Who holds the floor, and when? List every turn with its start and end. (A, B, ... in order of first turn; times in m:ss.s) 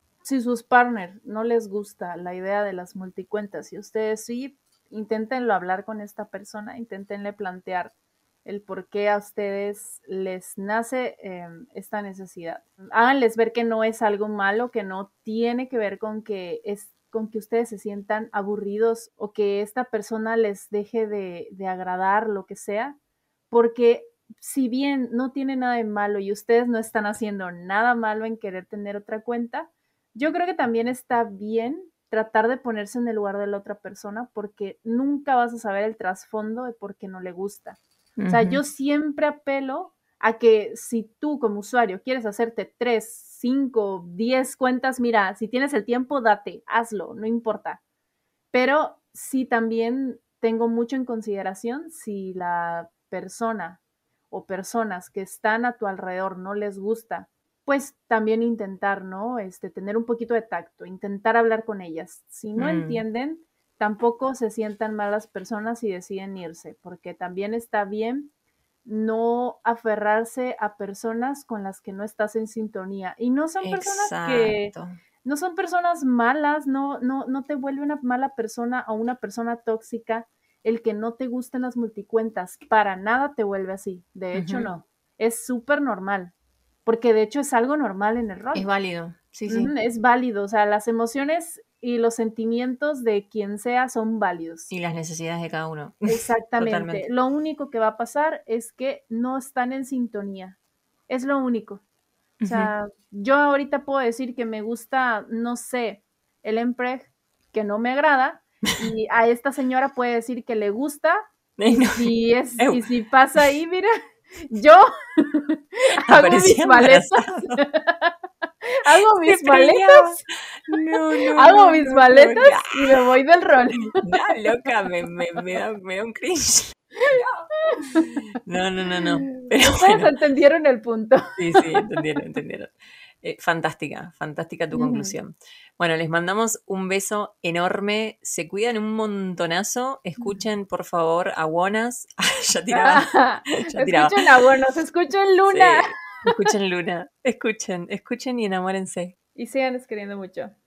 0:00.2-0:07.9 A
0:08.4-0:23.0 A
0:23.5-0:47.8 A
0:38.2-0:38.6 B
0:48.5-0:53.8 A
0:54.3-1:08.3 A
1:02.6-1:03.0 B
1:08.8-1:26.3 A
1:13.6-1:15.0 B
1:24.3-1:24.7 B
1:26.8-1:28.6 A
1:28.5-1:29.7 B
1:29.5-1:34.7 A
1:34.7-1:37.0 B
1:36.1-1:40.6 A
1:41.1-1:41.8 A
1:42.4-1:42.7 B
1:42.4-2:00.2 A
1:51.6-1:52.8 B
1:56.1-1:57.6 B
1:58.8-2:03.0 B
2:01.3-2:04.0 A
2:04.0-2:07.5 B
2:07.0-2:08.2 A
2:08.4-2:10.1 B
2:09.0-2:11.9 A
2:11.4-2:24.2 B
2:14.7-2:15.1 A
2:22.7-2:26.3 A
2:25.4-2:29.1 B
2:29.4-2:30.5 A